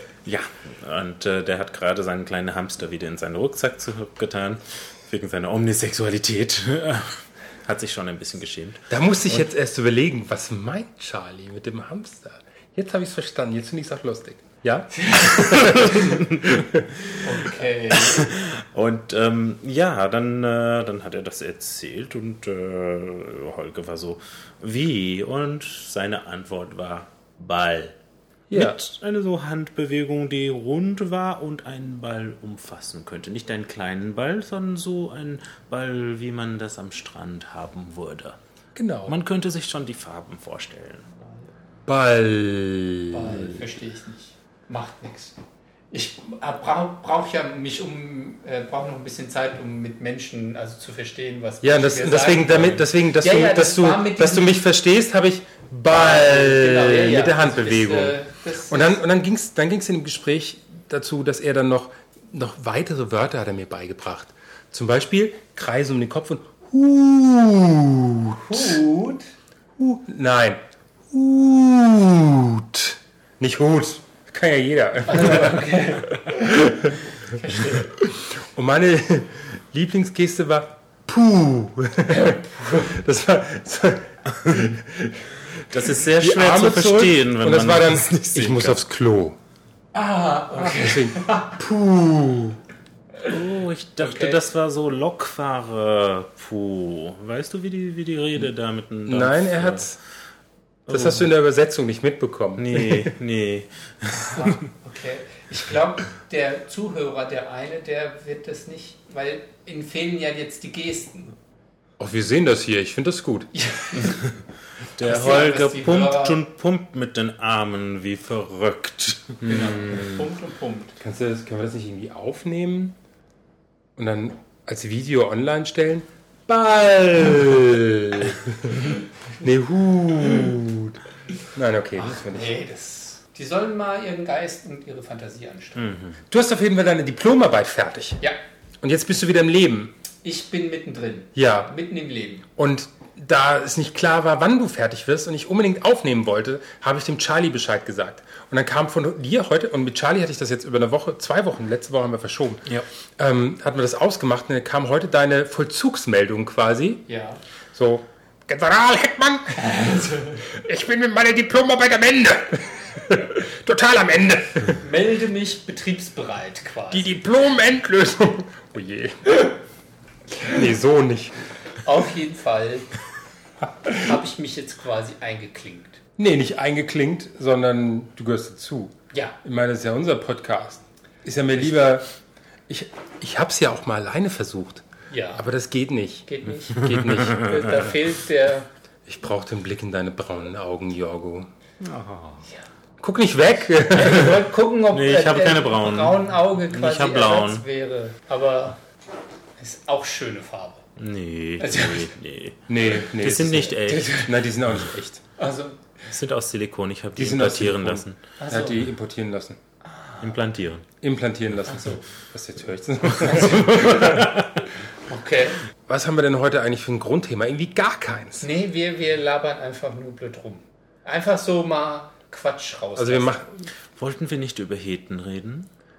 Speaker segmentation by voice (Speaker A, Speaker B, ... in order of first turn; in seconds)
Speaker A: 0.2-9.4, 15.8-16.3, 17.9-27.9, 28.5-38.4, 39.1-41.1, 85.7-88.8, 93.2-99.9, 100.9-101.2, 102.6-104.6, 115.0-119.3, 135.8-136.2, 186.9-187.8, 191.8-192.5, 194.9-197.7, 201.0-204.2, 206.1-208.2, 210.2-210.8, 213.7-214.4, 223.9-225.7
Speaker B: 8.9-16.9, 28.5-28.8, 38.8-39.1, 41.9-43.6, 51.6-58.2, 58.7-68.8, 69.8-75.7, 76.5-76.9, 78.0-85.3, 86.1-89.4, 90.6-92.6, 99.1-100.0, 100.9-103.1, 112.0-113.5, 119.4-120.1, 121.0-123.0, 124.0-131.0, 131.5-132.5, 136.3-138.2, 138.8-139.9, 141.3-141.7, 142.6-157.0, 157.7-159.8, 160.4-164.8, 166.9-169.5, 170.4-171.4, 176.2-182.1, 182.7-187.5, 189.1-191.5, 193.0-194.4, 202.7-205.2, 207.2-209.6, 211.0-214.3, 215.9-218.5, 222.9-223.7
Speaker C: 15.0-15.4, 17.2-18.3, 43.1-45.4, 45.9-54.6, 55.9-59.0, 68.5-69.3, 75.1-76.6, 77.3-77.9, 82.2-82.9, 89.9-91.6, 94.0-94.4, 104.2-111.3, 113.5-114.3, 115.0-116.4, 119.4-121.0, 132.0-135.9, 140.2-142.5, 157.1-157.4, 159.6-160.4, 164.8-167.2, 171.8-172.9, 173.9-176.0, 185.1-185.4, 186.3-188.7, 193.9-198.8, 199.6-200.8, 201.6-202.1, 203.9-204.4, 205.4-206.1, 208.4-208.9, 209.8-210.3, 211.7-212.0, 213.2-213.8, 215.1-215.6, 218.4-223.4